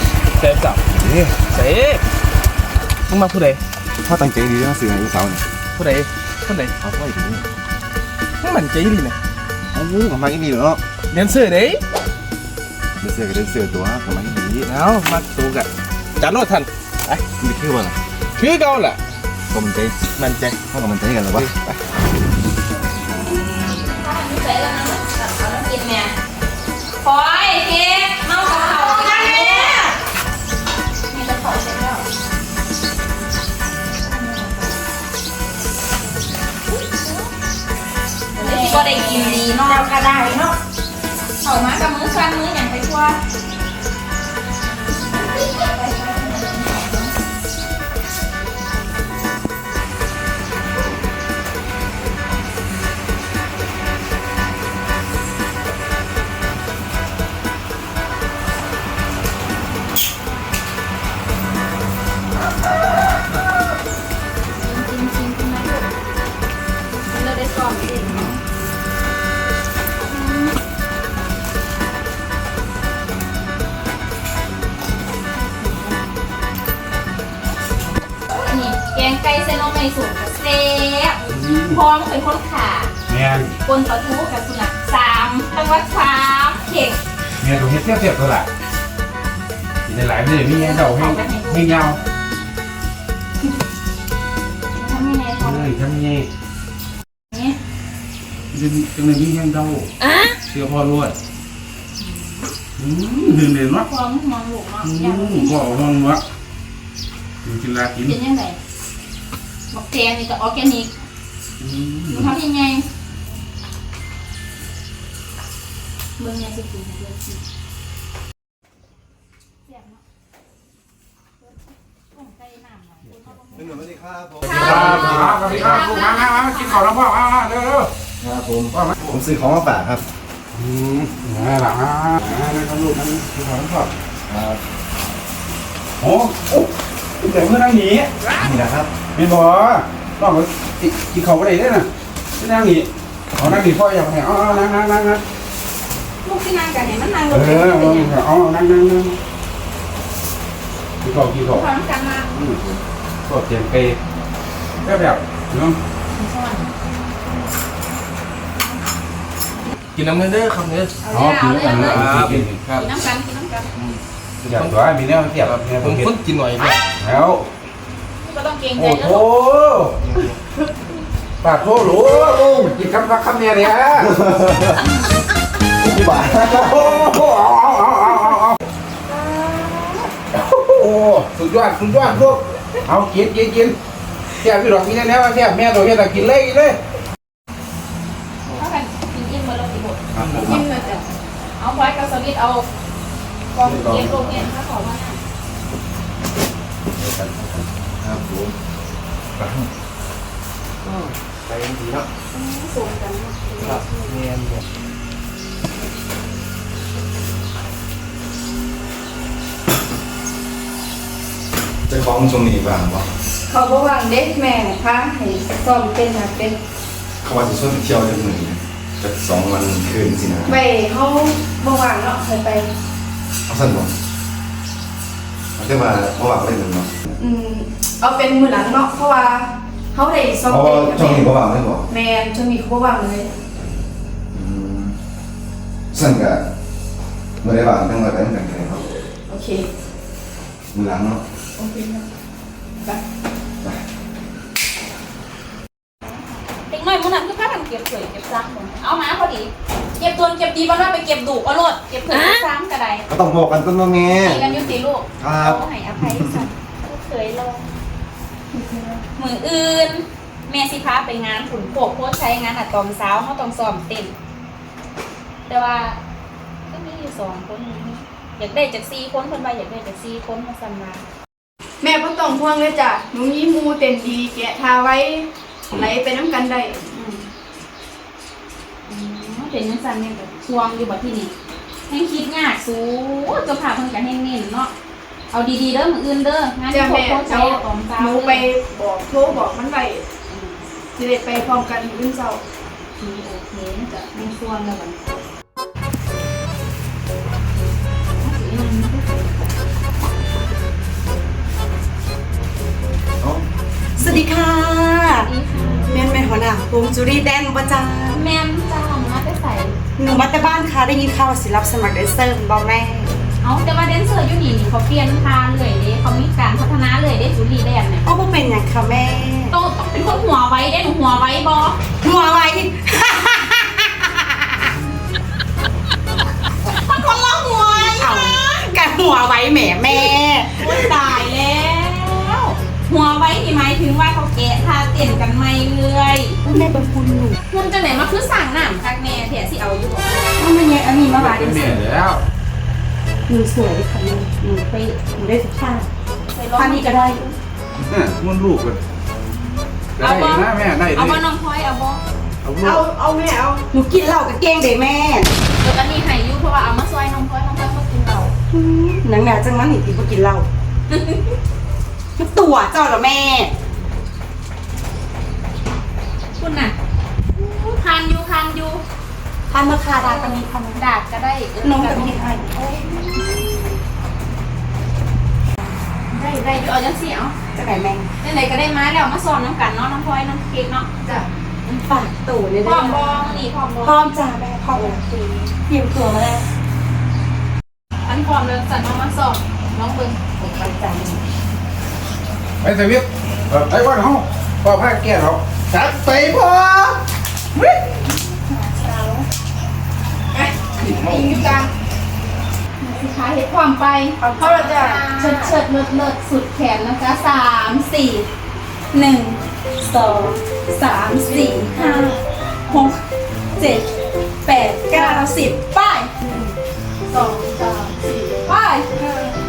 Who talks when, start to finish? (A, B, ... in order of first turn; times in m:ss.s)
0:00.4-0:00.8 A
0:01.0-0:01.3 B
0:01.4-0:02.0 A
0:03.1-0:03.6 A
0:04.0-0:05.4 B
0:05.7-0:06.7 A
0:06.8-0:07.5 B
0:08.4-0:09.2 A
0:09.7-0:10.8 B
0:11.1-0:11.8 A
0:13.0-0:14.7 B
0:14.6-0:17.2 A
0:17.4-0:18.0 B
0:18.4-0:19.0 A
0:19.5-0:20.0 B
0:20.2-0:20.6 A
0:20.7-0:21.8 B
0:23.1-0:26.1 C
0:27.0-0:29.9 C
0:28.3-0:29.9 D
0:31.3-0:32.0 C
0:34.1-0:34.5 C
0:38.4-0:39.9 C
0:38.4-0:38.8 D
0:39.5-0:40.5 D
0:41.4-0:43.2 C
0:45.0-0:47.1 C
1:04.5-1:05.9 C
1:07.1-1:08.4 C
1:10.2-1:10.4 C
1:15.6-1:15.9 C
1:18.3-1:22.9 C
1:21.3-1:21.8 E
1:23.1-1:23.5 E
1:23.6-1:27.0 C
1:27.4-1:28.5 E
1:29.8-1:32.0 E
1:30.5-1:31.8 C
1:34.7-1:35.7 C
1:35.3-1:36.3 E
1:37.3-1:37.6 C
1:38.5-1:39.9 E
1:40.4-1:41.2 A
1:42.0-1:42.4 C
1:42.8-1:43.9 E
1:43.8-1:45.8 C
1:44.8-1:46.2 E
1:47.4-1:48.2 E
1:48.0-1:48.6 C
1:49.7-1:50.9 C
1:51.6-1:52.3 E
1:52.1-1:52.8 C
1:56.2-1:57.3 C
2:02.1-2:03.8 C
2:03.5-2:05.7 B
2:04.5-2:06.9 C
2:04.5-2:07.9 E
2:08.2-2:10.0 B
2:10.5-2:13.9 E
2:14.3-2:14.6 B
2:16.0-2:16.7 E
2:17.2-2:18.1 E
2:18.4-2:18.9 B
2:19.1-2:25.2 E
2:26.2-2:28.1 C
2:27.3-2:29.2 E
2:31.0-2:31.6 E
2:31.5-2:32.3 C
2:32.3-2:32.6 E
2:33.3-2:34.0 E
2:34.8-2:35.8 E
2:36.1-2:36.7 C
2:39.9-2:40.9 A
2:41.0-2:42.1 C
2:41.1-2:42.6 E
2:41.7-2:42.9 A
2:42.8-2:43.7 C
2:43.8-2:44.8 A
2:44.4-2:46.1 E
2:45.3-2:46.8 A
2:47.0-2:47.5 E
2:48.2-2:49.3 C
2:48.8-2:49.9 E
2:50.1-2:50.4 A
2:51.4-2:54.1 E
2:51.9-2:52.8 B
2:54.0-2:54.8 B
2:55.8-2:56.9 B
2:56.6-2:58.6 E
2:59.2-2:59.8 D
3:00.3-3:03.7 E
3:04.4-3:06.8 E
3:08.6-3:11.0 C
3:10.2-3:10.5 A
3:10.2-3:10.6 B
3:10.4-3:11.0 F
3:11.6-3:12.7 C
3:13.5-3:15.2 C
3:13.6-3:14.4 E
3:17.0-3:17.6 E
3:18.0-3:18.5 B
3:19.4-3:19.7 B
3:20.8-3:22.1 A
3:22.3-3:23.6 C
3:23.2-3:23.8 F
3:23.6-3:24.6 A
3:31.9-3:33.1 B
3:33.5-3:36.6 F
3:37.2-3:40.6 B
3:40.5-3:42.7 F
3:43.5-3:43.9 B
3:45.6-3:46.9 B
3:47.2-3:51.3 F
3:50.5-3:51.9 B
3:51.9-3:53.3 F
3:54.3-3:55.0 B
3:55.9-3:56.4 B
3:57.4-3:58.9 B
3:59.3-3:59.7 F
4:00.7-4:01.2 B
4:01.6-4:02.0 F
4:06.6-4:13.0 C
4:13.1-4:14.4 B
4:14.1-4:17.7 C
4:15.2-4:16.4 B
4:18.5-4:19.0 F
4:19.2-4:24.1 C
4:25.4-4:26.0 C
4:26.6-4:31.0 C
4:31.8-4:36.8 F
4:36.9-4:37.2 C
4:38.8-4:41.3 C
4:41.9-4:44.7 C
4:45.3-4:48.4 C
4:46.7-4:50.0 F
4:50.3-4:50.6 C
4:50.9-4:52.4 F
4:53.0-4:55.0 C
4:58.2-4:59.1 C
5:04.0-5:05.3 D
5:05.1-5:06.0 C
5:05.9-5:08.2 D
5:08.1-5:09.8 C
5:10.0-5:13.1 D
5:13.4-5:18.0 C
5:18.0-5:19.5 D
5:19.5-5:21.8 C
5:22.0-5:24.0 D
5:26.7-5:28.8 C
5:26.9-5:31.2 D
5:29.9-5:36.4 C
5:36.4-5:37.4 D
5:37.5-5:40.3 C
5:40.4-5:41.8 D
5:41.0-5:42.2 E
5:43.3-5:45.9 D
5:46.3-5:47.3 C
5:46.5-5:47.2 D
5:47.8-5:48.8 E
5:50.0-5:51.2 E
5:50.0-5:52.0 C
5:52.4-5:52.7 E
5:52.6-5:53.6 F
5:53.7-5:55.3 D
5:55.6-5:58.3 C
5:58.5-6:00.5 D
6:00.9-6:01.4 C
6:02.2-6:03.5 D
6:06.4-6:06.7 C
6:07.4-6:08.8 C
6:09.5-6:10.8 D
6:10.0-6:12.2 C
6:11.6-6:13.7 D
6:16.1-6:17.3 C
6:17.5-6:18.1 D
6:18.2-6:20.9 C
6:21.6-6:23.2 D
6:22.6-6:24.0 C
6:23.8-6:26.4 D
6:28.0-6:30.2 C
6:30.4-6:31.2 D
6:32.6-6:35.4 E
6:36.4-6:36.9 B
6:38.5-6:39.2 C
6:40.3-6:41.7 F
6:40.8-6:41.5 A
6:42.8-6:48.3 C
6:44.2-6:45.6 F
6:48.9-6:52.2 C
6:50.8-6:52.1 F
6:52.7-6:53.0 C
6:53.6-6:53.8 C
6:54.4-6:56.1 C
6:54.9-6:55.4 F
6:56.2-6:56.5 F
6:57.1-6:59.3 F
6:58.5-6:58.8 C